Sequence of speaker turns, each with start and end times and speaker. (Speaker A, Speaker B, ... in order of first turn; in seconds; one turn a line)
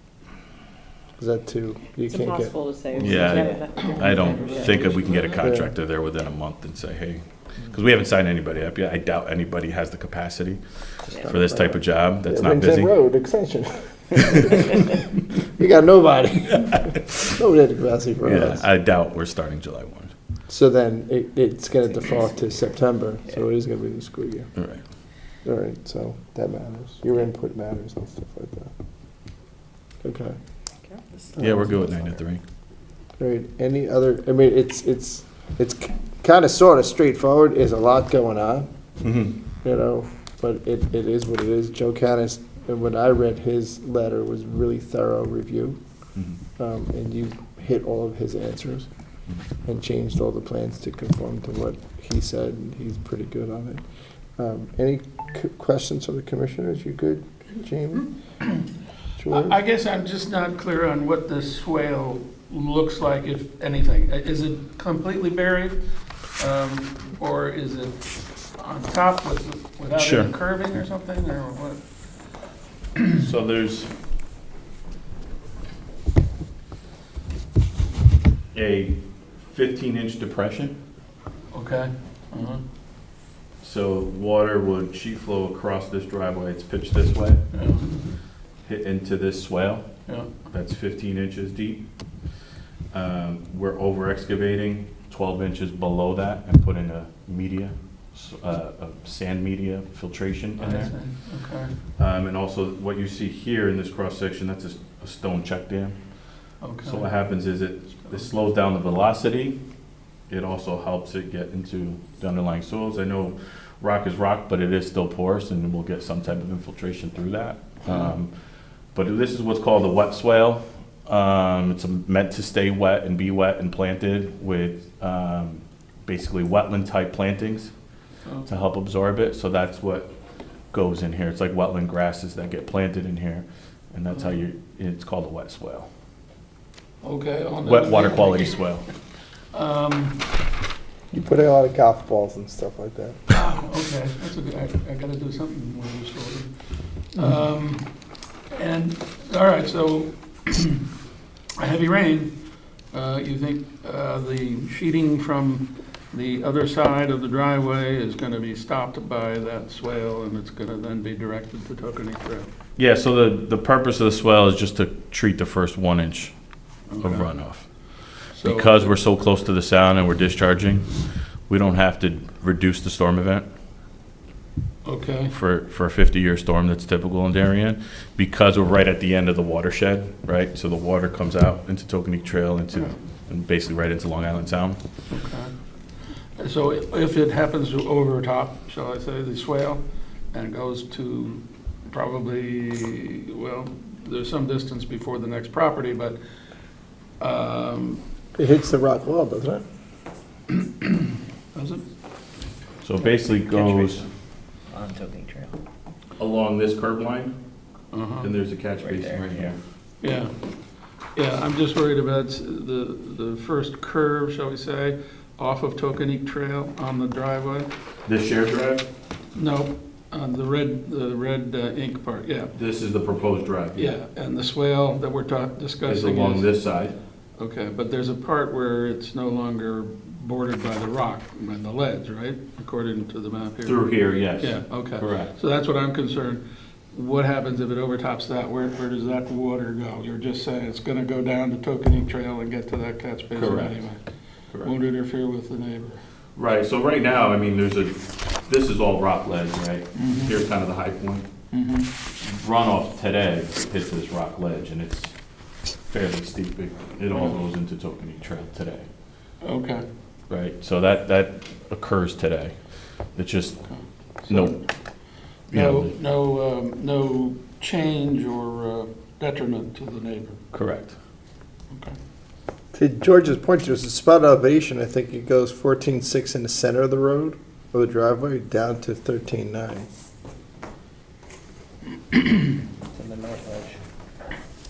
Speaker A: 1.2-2.5
Speaker B: 2.1-5.3
Speaker C: 3.0-12.9
Speaker D: 3.7-5.4
Speaker A: 5.4-5.7
Speaker A: 11.2-18.6
Speaker C: 16.5-17.4
Speaker C: 18.2-20.1
Speaker A: 20.5-24.5
Speaker C: 24.6-24.8
Speaker A: 25.4-28.7
Speaker A: 30.0-30.4
Speaker B: 30.8-31.7
Speaker A: 31.4-31.7
Speaker C: 31.4-32.4
Speaker A: 33.2-38.7
Speaker C: 39.0-39.4
Speaker A: 39.6-45.8
Speaker A: 46.6-48.9
Speaker A: 49.6-53.8
Speaker A: 54.4-58.1
Speaker A: 59.2-59.6
Speaker D: 59.3-65.8
Speaker D: 66.4-71.8
Speaker C: 69.9-70.3
Speaker D: 73.0-73.3
Speaker C: 73.2-73.9
Speaker C: 78.5-80.8
Speaker D: 81.5-82.6
Speaker C: 83.6-87.5
Speaker D: 87.5-88.1
Speaker C: 88.7-91.9
Speaker C: 92.9-101.0
Speaker D: 100.6-101.7
Speaker C: 102.0-106.0
Speaker D: 106.6-107.2
Speaker C: 106.8-109.6
Speaker D: 108.0-108.3
Speaker C: 110.3-118.3
Speaker D: 117.8-118.1
Speaker C: 118.9-127.7
Speaker C: 128.5-130.1
Speaker C: 130.7-135.9
Speaker D: 134.1-134.4
Speaker D: 137.0-138.7
Speaker C: 137.6-138.8
Speaker D: 139.5-140.3
Speaker A: 141.1-143.2
Speaker D: 143.3-146.5
Speaker D: 147.1-147.9
Speaker D: 148.5-150.9
Speaker D: 151.6-152.4
Speaker D: 152.9-162.5
Speaker C: 162.8-166.4
Speaker D: 166.9-167.3
Speaker C: 167.0-167.7
Speaker D: 168.3-168.9
Speaker C: 168.4-171.0
Speaker C: 171.5-173.5
Speaker D: 174.8-175.3
Speaker C: 175.3-184.8
Speaker D: 185.1-185.5
Speaker D: 186.4-196.2
Speaker D: 197.2-198.0
Speaker A: 198.3-199.6
Speaker D: 200.5-201.8
Speaker C: 202.8-204.1
Speaker E: 203.5-204.0
Speaker E: 204.7-205.6
Speaker C: 206.2-207.3
Speaker D: 207.9-208.3
Speaker C: 208.2-209.6
Speaker E: 208.8-209.5
Speaker D: 210.0-210.3
Speaker D: 211.2-217.7
Speaker C: 218.1-218.9
Speaker D: 219.3-222.5
Speaker C: 222.5-224.0
Speaker D: 223.8-226.5
Speaker C: 225.8-227.0
Speaker D: 227.4-244.0
Speaker C: 233.6-235.3
Speaker C: 243.3-243.9
Speaker D: 244.6-246.0
Speaker C: 246.4-251.3
Speaker D: 250.0-250.4
Speaker D: 251.5-251.9
Speaker C: 252.2-255.2
Speaker C: 255.8-258.9
Speaker D: 257.1-257.4
Speaker D: 259.4-259.9
Speaker C: 260.3-262.6
Speaker C: 263.1-263.6
Speaker D: 263.7-264.6
Speaker C: 264.3-264.6
Speaker C: 265.5-265.9
Speaker D: 265.5-270.4
Speaker C: 270.5-271.0
Speaker D: 271.7-272.0
Speaker A: 272.7-279.9
Speaker E: 282.9-283.8